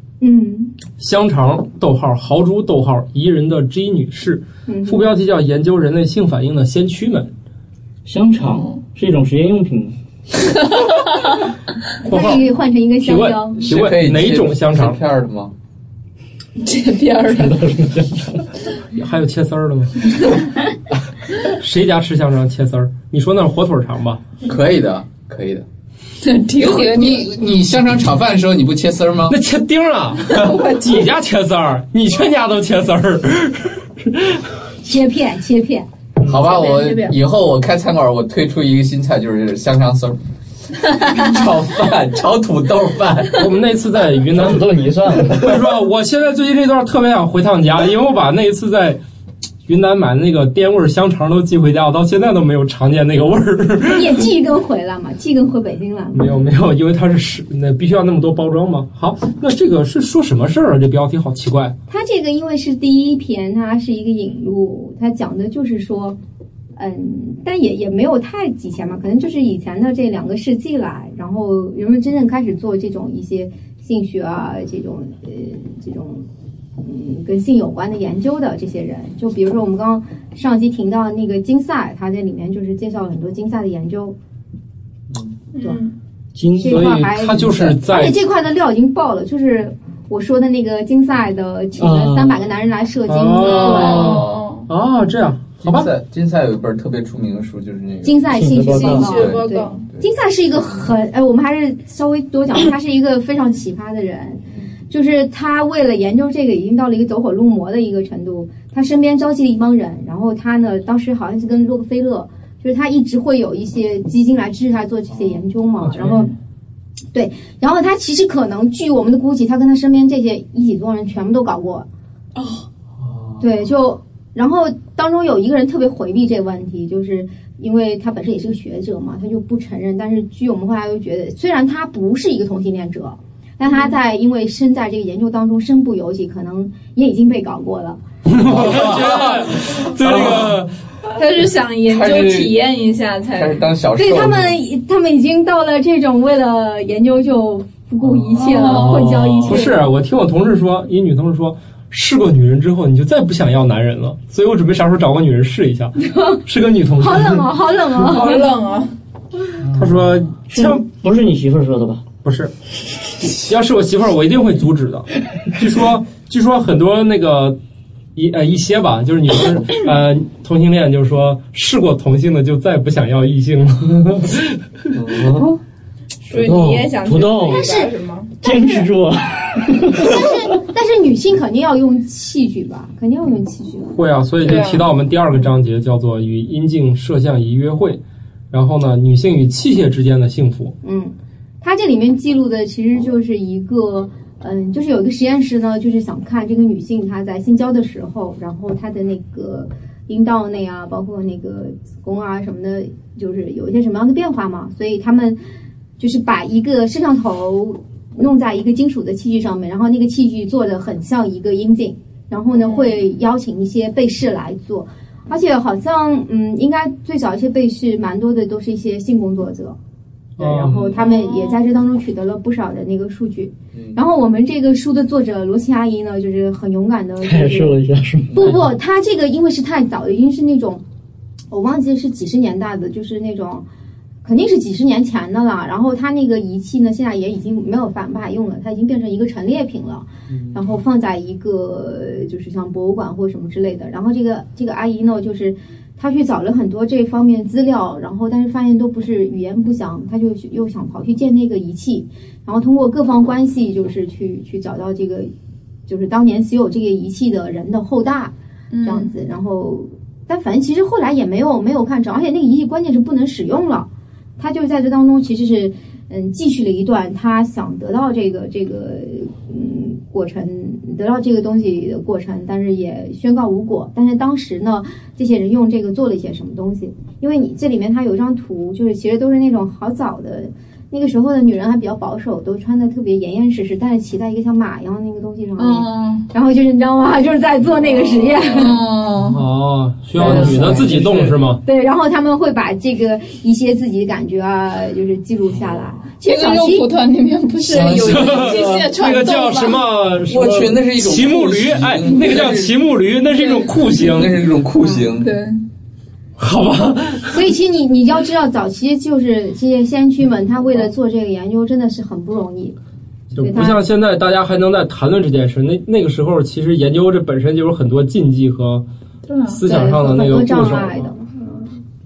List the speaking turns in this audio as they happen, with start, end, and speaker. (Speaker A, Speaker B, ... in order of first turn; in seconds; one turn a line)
Speaker A: 0.2-0.7
Speaker B: 1.0-7.3
Speaker A: 4.7-5.1
Speaker C: 8.1-9.9
Speaker B: 12.1-12.5
Speaker A: 12.1-13.6
Speaker B: 13.0-15.0
Speaker D: 13.6-15.5
Speaker E: 16.6-17.5
Speaker C: 17.3-18.4
Speaker B: 18.9-20.1
Speaker B: 21.5-24.2
Speaker D: 24.4-25.6
Speaker E: 26.2-27.3
Speaker D: 26.6-29.4
Speaker B: 29.3-34.4
Speaker A: 34.8-35.9
Speaker D: 36.2-40.2
Speaker E: 36.3-37.1
Speaker D: 40.9-43.5
Speaker B: 43.4-44.7
Speaker C: 44.3-45.7
Speaker B: 45.2-49.0
Speaker B: 49.7-54.3
Speaker A: 53.9-56.4
Speaker B: 56.1-61.8
Speaker A: 61.9-66.2
Speaker A: 66.8-76.2
Speaker A: 76.8-84.2
Speaker E: 85.5-85.9
Speaker C: 86.4-87.0
Speaker A: 86.6-94.2
Speaker B: 86.6-88.2
Speaker C: 91.8-92.4
Speaker B: 93.1-95.9
Speaker E: 93.4-94.7
Speaker D: 95.6-98.3
Speaker A: 98.0-116.3
Speaker C: 98.3-99.2
Speaker E: 98.7-99.8
Speaker D: 99.0-100.8
Speaker B: 115.8-116.3
Speaker A: 117.1-121.9
Speaker E: 122.4-122.6
Speaker A: 123.4-138.0
Speaker B: 138.3-140.7
Speaker D: 138.4-140.6
Speaker E: 141.2-143.7
Speaker D: 141.9-142.6
Speaker D: 143.3-144.6
Speaker A: 144.0-149.9
Speaker E: 148.4-149.6
Speaker B: 148.5-157.4
Speaker A: 157.0-158.5
Speaker E: 158.0-158.9
Speaker B: 159.7-160.8
Speaker C: 160.5-162.0
Speaker B: 162.2-162.5
Speaker B: 163.2-167.6
Speaker B: 168.2-174.6
Speaker D: 174.9-175.5
Speaker C: 175.2-175.5
Speaker E: 176.3-178.3
Speaker C: 176.3-177.7
Speaker A: 177.4-178.9
Speaker C: 178.4-180.3
Speaker A: 179.9-184.0
Speaker B: 183.9-190.8
Speaker E: 184.4-184.8
Speaker A: 190.8-205.4
Speaker A: 206.0-219.8
Speaker E: 212.5-213.0
Speaker B: 220.4-220.9
Speaker A: 220.4-227.8
Speaker E: 220.9-221.6
Speaker C: 227.2-228.4
Speaker A: 228.3-230.8
Speaker A: 231.5-233.7
Speaker A: 234.2-255.3
Speaker A: 255.9-263.9
Speaker E: 258.7-259.1
Speaker A: 264.4-288.8
Speaker E: 285.6-286.3
Speaker E: 288.5-289.4
Speaker B: 289.2-291.6
Speaker A: 290.2-291.0
Speaker C: 290.3-291.3
Speaker A: 291.6-296.9
Speaker E: 296.2-299.8
Speaker D: 297.7-298.9
Speaker B: 297.7-304.4
Speaker D: 300.3-302.8
Speaker D: 303.4-305.3
Speaker E: 305.2-305.6
Speaker B: 306.4-307.4
Speaker A: 307.3-312.8
Speaker B: 313.3-318.8
Speaker A: 313.4-313.8
Speaker E: 319.3-319.6
Speaker B: 319.5-321.1
Speaker A: 319.6-321.7